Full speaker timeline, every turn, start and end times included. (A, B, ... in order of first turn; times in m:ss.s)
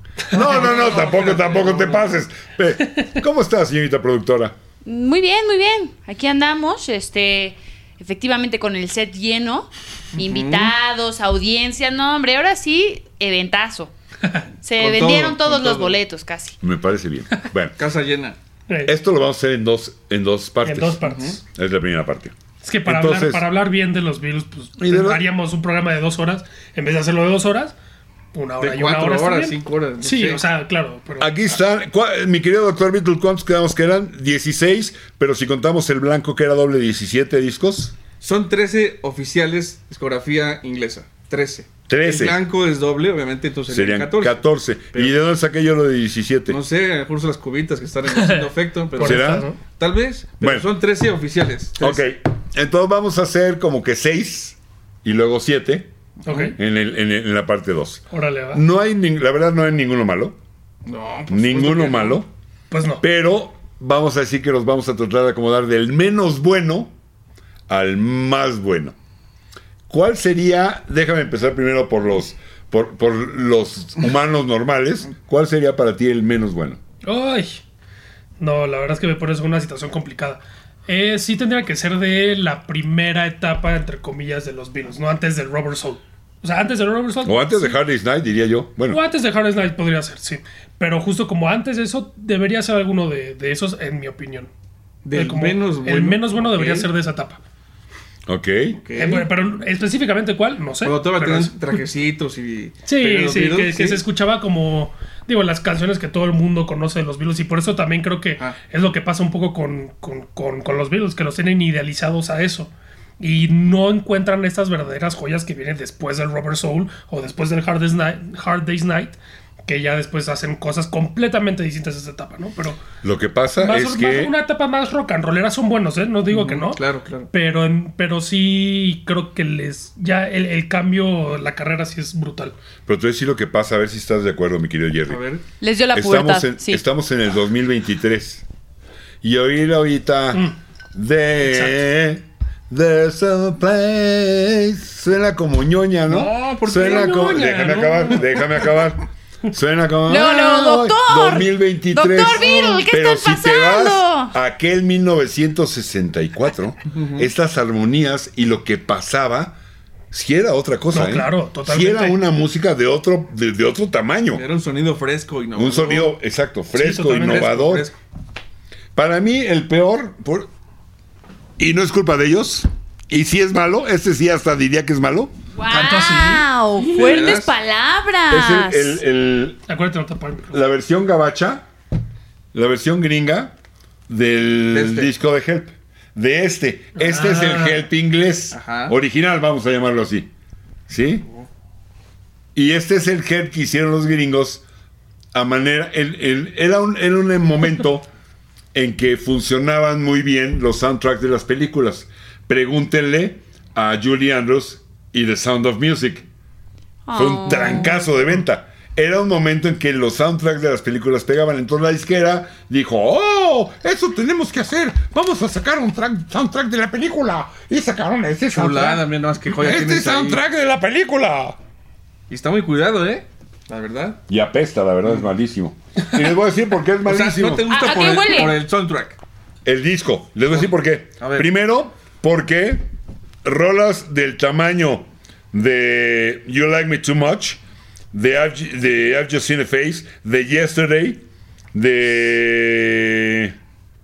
0:00.3-0:04.5 A
0:00.3-0:01.4 B
0:00.6-0:02.1 C
0:04.8-0:13.9 D
0:10.2-0:10.7 C
0:14.6-0:16.6 D
0:14.8-0:16.0 C
0:16.6-0:17.8 A
0:17.8-0:18.4 C
0:18.7-0:18.9 B
0:18.8-0:23.4 A
0:20.6-0:21.4 B
0:21.0-0:21.4 C
0:22.6-0:27.7 B
0:24.8-0:25.2 A
0:28.3-0:31.4 B
0:28.6-0:30.4 C
0:31.2-0:37.9 A
0:38.2-0:45.1 C
0:41.9-0:42.4 A
0:43.7-0:46.6 A
0:46.5-0:52.1 C
0:48.1-0:49.6 B
0:49.0-0:49.5 A
0:50.4-0:50.7 A
0:51.8-0:55.9 A
0:56.2-0:56.6 C
0:56.3-0:56.5 B
0:56.6-1:00.4 A
0:58.1-0:58.6 B
1:00.8-1:02.2 C
1:01.3-1:02.3 A
1:02.7-1:03.0 B
1:03.0-1:06.9 A
1:07.7-1:08.9 A
1:09.9-1:16.8 A
1:17.0-1:17.6 B
1:18.4-1:27.8 B
1:27.2-1:29.0 A
1:28.9-1:34.5 B
1:35.0-1:36.9 C
1:35.1-1:37.4 B
1:38.3-1:38.8 A
1:38.8-1:39.3 C
1:39.0-1:41.5 B
1:40.8-1:44.0 C
1:42.9-2:02.8 B
2:03.0-2:04.4 A
2:03.6-2:12.6 B
2:06.3-2:07.3 C
2:12.9-2:15.2 A
2:15.1-2:15.4 C
2:15.6-2:16.8 D
2:15.9-2:18.4 A
2:19.2-2:39.6 A
2:21.4-2:21.8 B
2:26.1-2:27.4 C
2:26.7-2:28.7 B
2:30.1-2:34.3 D
2:36.9-2:37.3 C
2:40.1-2:44.4 A
2:40.9-2:42.2 B
2:44.3-2:46.1 C
2:45.6-2:47.9 A
2:46.7-2:47.5 B
2:47.2-2:48.0 C
2:48.9-2:50.5 A
2:51.6-2:55.3 A
2:55.6-2:59.0 D
2:55.7-2:56.4 B
2:56.9-2:57.5 C
2:57.0-2:57.3 A
2:58.3-2:59.6 A
2:59.7-3:00.6 B
3:00.5-3:01.6 A
3:02.5-3:03.5 A
3:04.1-3:10.3 A
3:04.7-3:05.1 C
3:07.0-3:07.9 B
3:08.5-3:08.9 C
3:10.9-3:11.3 A
3:12.5-3:14.6 A
3:15.3-3:18.1 A
3:18.7-3:26.2 A
3:27.1-3:28.1 D
3:27.1-3:41.6 A
3:38.5-3:40.4 C
3:42.3-3:44.2 C
3:44.3-3:47.6 A
3:47.0-3:49.2 C
3:47.7-3:48.6 D
3:49.6-3:52.8 A
3:50.5-3:51.5 C
3:53.4-3:57.6 A
3:58.1-4:03.6 A